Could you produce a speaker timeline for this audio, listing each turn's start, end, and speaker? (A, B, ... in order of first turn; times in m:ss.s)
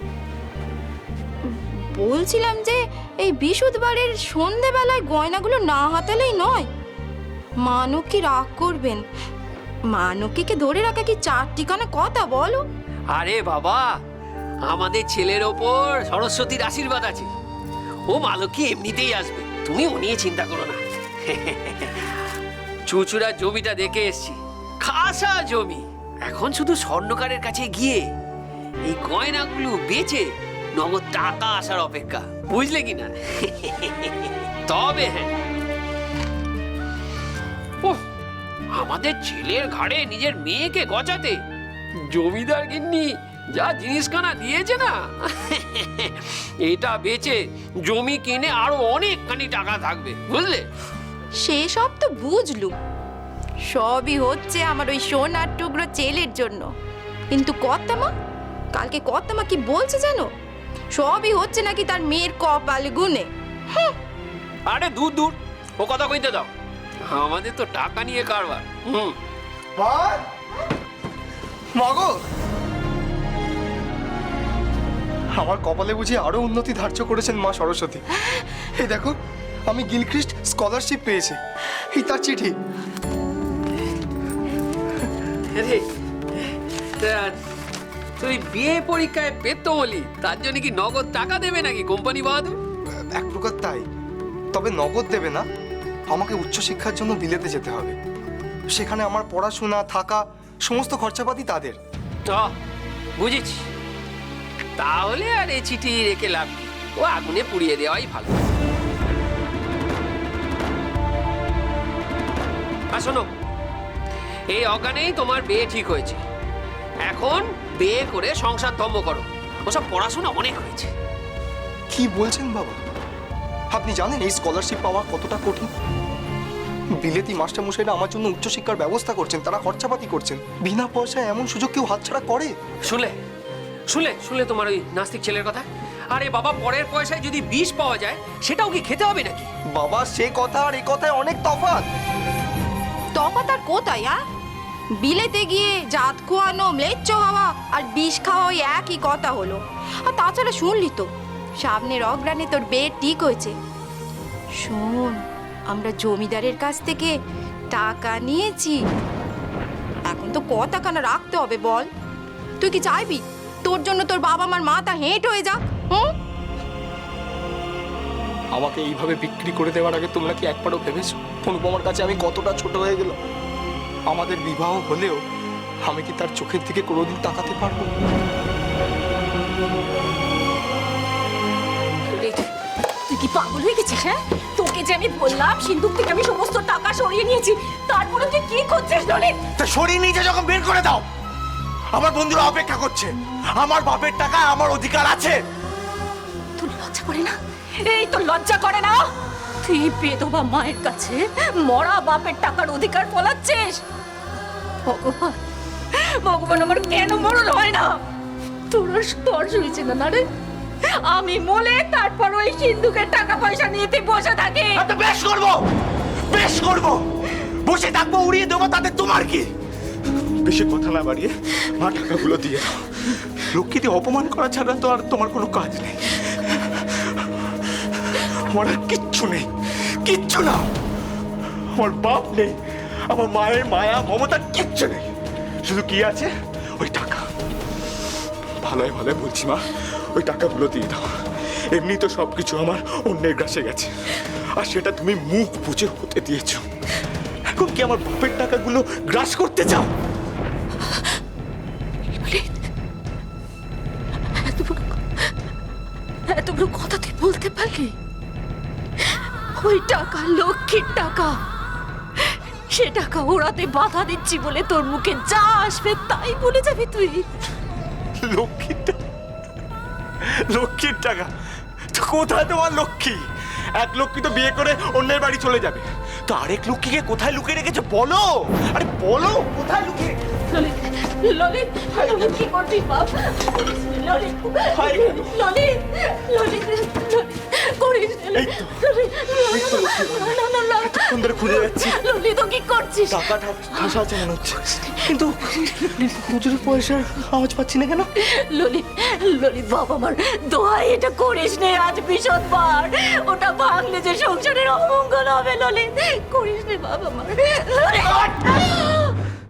0:01.5-0:06.7 A
0:07.6-0:09.0 A
0:09.9-0:12.6 A
0:13.2-0:13.9 B
0:14.7-0:17.3 B
0:18.1-0:22.1 B
0:22.9-0:28.1 B
0:28.9-0:35.3 B
0:38.7-0:41.4 B
0:42.0-0:50.6 B
0:51.4-0:52.7 A
0:53.7-0:56.7 A
0:57.3-0:58.1 A
0:58.7-1:00.3 A
1:01.0-1:03.9 A
1:04.7-1:06.5 B
1:07.1-1:09.2 B
1:09.8-1:10.2 C
1:11.8-1:12.1 C
1:15.4-1:18.0 C
1:18.8-1:19.1 C
1:19.7-1:21.4 C
1:21.9-1:22.6 C
1:25.5-1:25.8 B
1:26.4-1:27.4 B
1:28.2-1:32.6 B
1:33.1-1:33.8 C
1:34.5-1:35.4 C
1:36.1-1:38.0 C
1:38.7-1:41.8 C
1:42.3-1:42.5 B
1:43.2-1:43.6 B
1:44.8-1:48.4 B
1:52.9-1:53.3 B
1:54.5-1:56.2 B
1:57.1-2:00.9 B
2:01.9-2:02.8 C
2:03.7-2:05.7 C
2:07.0-2:12.5 C
2:12.9-2:13.2 B
2:13.9-2:19.5 B
2:19.7-2:21.8 C
2:23.2-2:24.2 A
2:25.0-2:31.1 A
2:31.6-2:33.5 A
2:34.6-2:35.2 A
2:35.7-2:37.1 A
2:37.7-2:38.8 A
2:40.1-2:41.9 A
2:42.6-2:46.1 A
2:48.5-2:53.1 C
2:54.1-2:55.2 C
2:55.8-2:57.9 C
3:02.1-3:02.5 D
3:03.1-3:09.4 D
3:09.6-3:11.0 E
3:11.9-3:15.4 E
3:16.6-3:19.0 D
3:19.6-3:23.8 D
3:24.8-3:25.4 D
3:25.9-3:27.9 D
3:28.7-3:30.2 D
3:30.9-3:34.8 D
3:34.7-3:35.6 E
3:36.3-3:37.0 E
3:37.6-3:39.5 E
3:40.4-3:47.2 E
3:48.0-3:49.5 E
3:50.0-3:50.7 E
3:51.7-3:52.6 E
3:53.1-3:55.0 E
3:55.6-3:57.2 E
3:58.6-3:59.6 E
4:00.1-4:01.1 E
4:01.7-4:06.6 E
4:07.6-4:09.9 E
4:12.1-4:12.5 D
4:14.4-4:15.0 D
4:16.3-4:17.9 D
4:19.6-4:21.4 D
4:22.2-4:27.2 D
4:28.2-4:29.0 E
4:30.2-4:31.3 E
4:31.9-4:33.2 E
4:33.8-4:40.2 E
4:40.5-4:54.1 D
4:44.7-4:45.4 E
4:48.3-4:48.8 E
4:49.5-4:52.0 E
4:53.1-4:58.1 E
4:54.9-4:56.3 D
4:58.2-5:09.1 D